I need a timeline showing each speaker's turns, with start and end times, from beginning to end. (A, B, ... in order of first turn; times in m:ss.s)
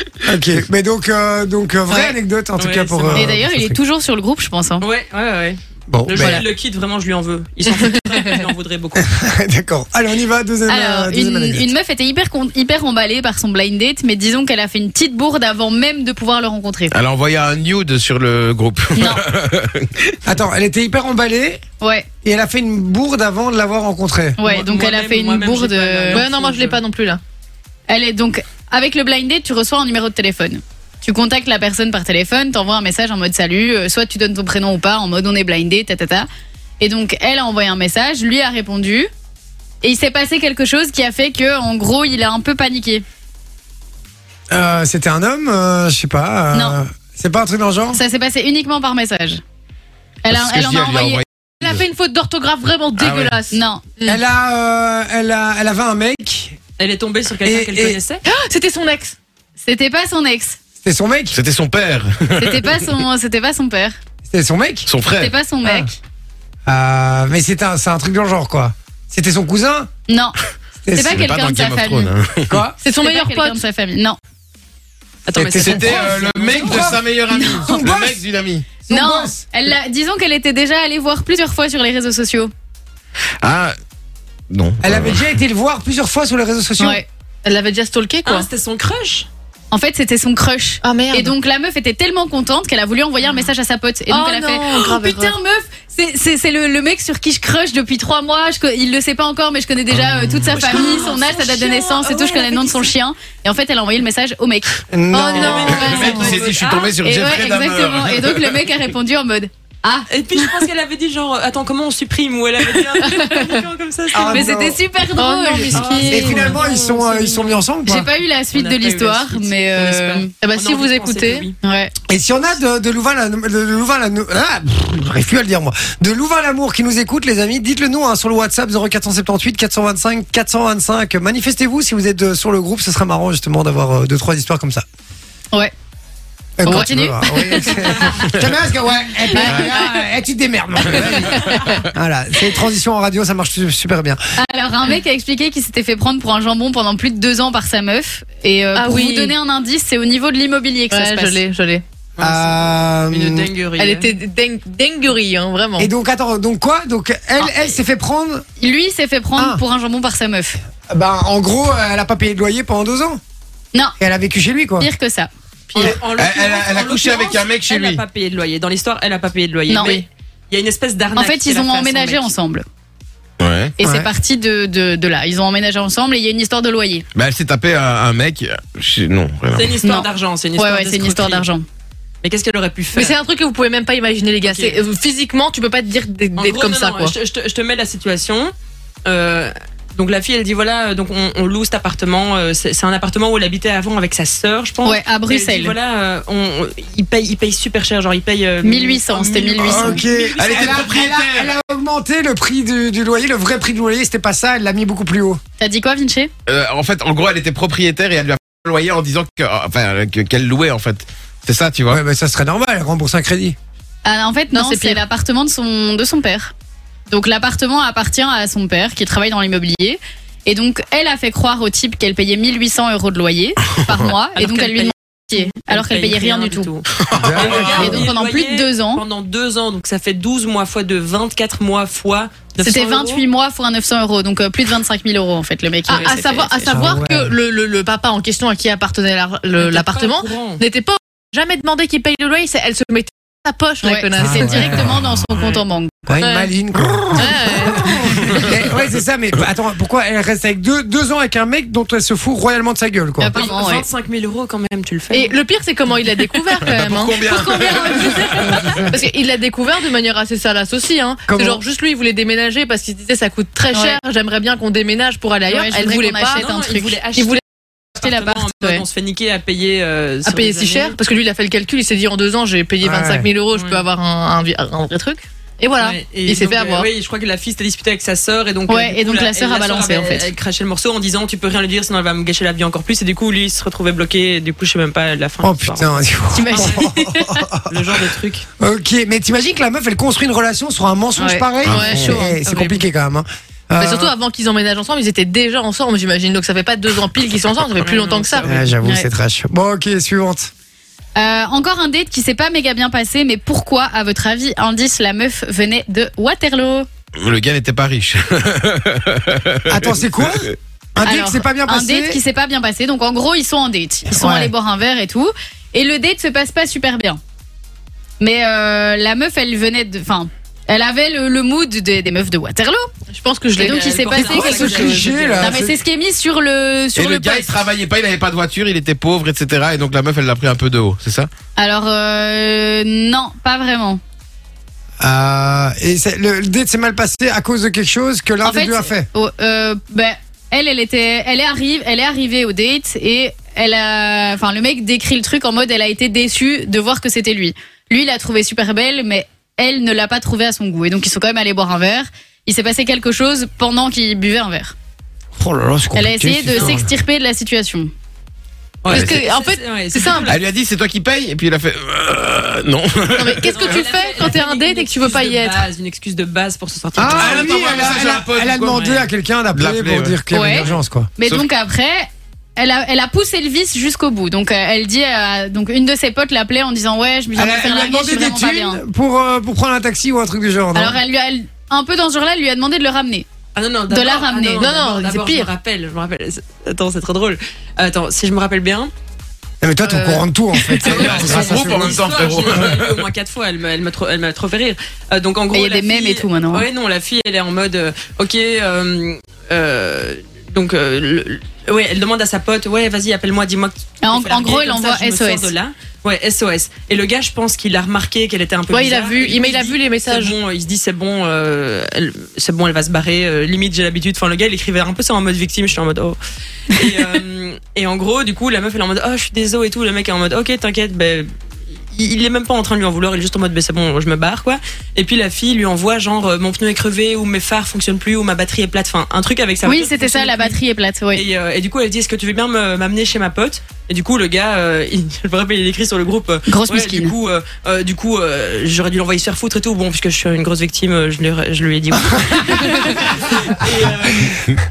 0:00.2-0:03.8 A
0:01.9-0:02.2 B
0:02.6-0:03.3 C
0:03.1-0:04.8 D
0:04.8-0:09.1 C
0:05.9-0:06.4 A
0:06.2-0:06.4 B
0:09.0-0:11.7 A
0:10.7-0:16.9 D
0:16.9-0:20.2 E
0:19.0-0:19.2 D
0:20.2-0:21.6 A
0:21.8-0:22.1 D
0:22.2-0:24.4 A
0:24.4-0:26.2 D
0:24.4-0:26.8 C
0:26.1-0:27.2 B
0:27.9-0:36.3 D
0:36.8-0:39.1 D
0:39.8-0:43.0 D
0:44.5-0:48.0 A
0:46.5-0:46.8 D
0:47.9-0:49.4 D
0:50.2-0:51.2 D
0:50.3-0:51.8 E
0:51.6-0:54.2 B
0:53.0-0:53.4 E
0:53.4-0:53.8 D
0:54.0-0:56.6 A
0:56.8-0:58.2 C
0:57.4-0:58.0 A
0:58.2-0:59.2 B
0:59.6-1:00.6 D
1:00.8-1:01.4 A
1:01.3-1:03.0 E
1:02.4-1:04.0 D
1:04.3-1:04.9 A
1:04.8-1:05.3 E
1:05.1-1:06.0 D
1:05.6-1:05.9 A
1:06.7-1:09.9 A
1:10.1-1:10.4 D
1:10.8-1:11.3 A
1:10.9-1:12.1 D
1:11.1-1:12.6 E
1:12.5-1:12.8 A
1:12.8-1:13.6 B
1:12.9-1:14.2 D
1:15.3-1:16.9 C
1:15.4-1:17.0 A
1:15.5-1:18.8 E
1:16.6-1:17.8 D
1:17.5-1:18.2 A
1:18.8-1:19.4 A
1:18.9-1:22.5 D
1:23.4-1:23.7 E
1:24.5-1:25.3 E
1:24.8-1:27.0 A
1:26.8-1:27.0 D
1:27.4-1:28.5 B
1:28.2-1:29.3 C
1:29.7-1:44.8 D
1:30.8-1:31.3 B
1:34.1-1:35.4 B
1:40.2-1:40.5 E
1:40.5-1:42.6 B
1:40.5-1:41.3 C
1:42.0-1:42.9 C
1:44.9-1:46.4 A
1:45.1-1:46.4 B
1:45.3-1:47.0 C
1:45.6-1:48.7 E
1:45.8-1:46.1 D
1:47.0-1:50.6 D
1:50.1-1:54.5 C
1:53.0-1:53.4 D
1:54.1-1:54.8 A
1:54.2-1:55.8 D
1:55.1-1:56.6 B
1:55.7-1:58.1 A
1:55.7-1:57.7 C
1:57.8-2:00.3 D
1:58.5-2:01.5 C
2:00.4-2:01.5 B
2:01.6-2:01.9 D
2:02.1-2:14.8 A
2:16.6-2:24.2 A
2:16.6-2:18.3 D
2:19.3-2:19.9 D
2:19.4-2:19.7 E
2:21.0-2:21.8 E
2:24.4-2:31.4 D
2:28.7-2:29.4 B
2:30.9-2:31.8 B
2:32.2-2:34.1 C
2:32.2-2:33.5 A
2:33.8-2:35.9 B
2:35.8-2:38.4 A
2:38.6-2:40.6 D
2:39.4-2:39.6 A
2:40.9-2:43.2 A
2:44.0-2:44.9 A
2:44.8-2:45.3 D
2:45.7-2:52.3 C
2:46.0-2:48.0 E
2:49.7-2:50.0 D
2:51.2-2:52.6 D
2:53.4-2:53.7 E
2:53.8-2:57.0 D
2:53.8-2:54.1 A
2:57.1-2:59.8 E
2:59.5-3:01.5 C
2:59.8-3:01.6 D
3:02.2-3:03.2 C
3:02.9-3:07.1 B
3:04.4-3:04.8 C
3:06.4-3:08.5 C
3:09.0-3:21.0 C
3:14.8-3:15.7 D
3:18.6-3:20.0 D
3:19.6-3:25.4 A
3:20.4-3:21.5 E
3:25.6-3:26.3 D
3:26.4-3:32.0 E
3:31.9-3:33.6 A
3:34.0-3:36.5 D
3:34.5-3:35.0 B
3:37.1-3:46.7 D
3:44.3-3:53.2 C
3:47.1-3:47.8 E
3:47.1-3:48.0 A
3:47.7-3:49.0 D
3:52.6-3:56.8 D
3:55.8-4:05.0 B
3:55.9-3:56.2 C
3:56.6-3:57.3 A
3:59.6-4:00.6 C
4:03.8-4:06.2 D
4:04.2-4:05.0 A
4:06.1-4:13.5 A
4:06.2-4:06.5 B
4:07.1-4:08.2 B
4:07.9-4:08.5 E
4:13.2-4:13.8 D
4:13.3-4:15.3 C
4:15.1-4:26.5 B
4:16.6-4:18.8 E
4:18.4-4:19.0 A
4:21.3-4:21.6 A
4:23.7-4:24.0 D
4:25.4-4:27.0 D
4:26.3-4:27.4 C
4:27.0-4:27.4 B
4:27.9-4:30.9 C
4:28.0-4:28.8 D
4:30.2-4:36.9 B
4:32.8-4:33.3 A
4:33.5-4:33.8 C
4:35.8-4:45.9 C
4:38.7-4:40.3 D
4:45.4-4:47.6 A
4:46.3-4:47.4 D
4:46.5-4:46.8 C
4:47.7-4:48.4 C
4:48.6-4:54.1 A
4:51.2-4:52.4 D
4:51.6-4:52.2 E
4:51.7-4:52.1 B
4:52.4-4:52.8 C
4:53.8-4:58.5 B
4:57.8-4:58.6 C
4:58.4-5:00.5 A
4:58.8-4:59.1 D
5:01.2-5:06.9 D
5:07.2-5:10.3 E
5:09.7-5:12.2 A
5:11.0-5:17.2 D
5:14.1-5:14.5 A
5:18.2-5:22.9 D
5:23.1-5:23.8 B
5:23.5-5:27.6 D
5:23.7-5:25.7 C
5:24.1-5:25.8 A
5:24.8-5:25.1 B
5:26.9-5:31.3 E
5:31.6-5:34.0 D
5:35.0-5:39.1 A
5:38.4-5:54.7 D
5:55.4-5:56.9 A
5:55.9-5:57.9 D
5:56.5-5:56.8 C
5:58.8-6:00.4 C
5:58.9-6:00.3 B
6:00.2-6:03.8 E
6:03.1-6:05.7 B
6:03.4-6:07.5 C
6:06.9-6:11.1 A
6:07.0-6:10.7 E
6:10.3-6:18.8 D
6:17.4-6:21.0 A
6:20.7-6:23.2 D
6:23.5-6:28.9 C
6:23.9-6:24.6 D
6:24.6-6:25.5 B
6:29.6-6:32.6 A
6:29.8-6:30.2 B
6:30.8-6:33.1 E
6:30.8-6:56.2 C
6:35.5-6:36.6 D
6:44.0-6:45.5 D
6:48.7-6:50.4 B
6:56.7-7:01.3 C
7:01.9-7:10.6 C
7:09.6-7:11.2 D
7:11.1-7:24.5 C
7:16.5-7:17.1 D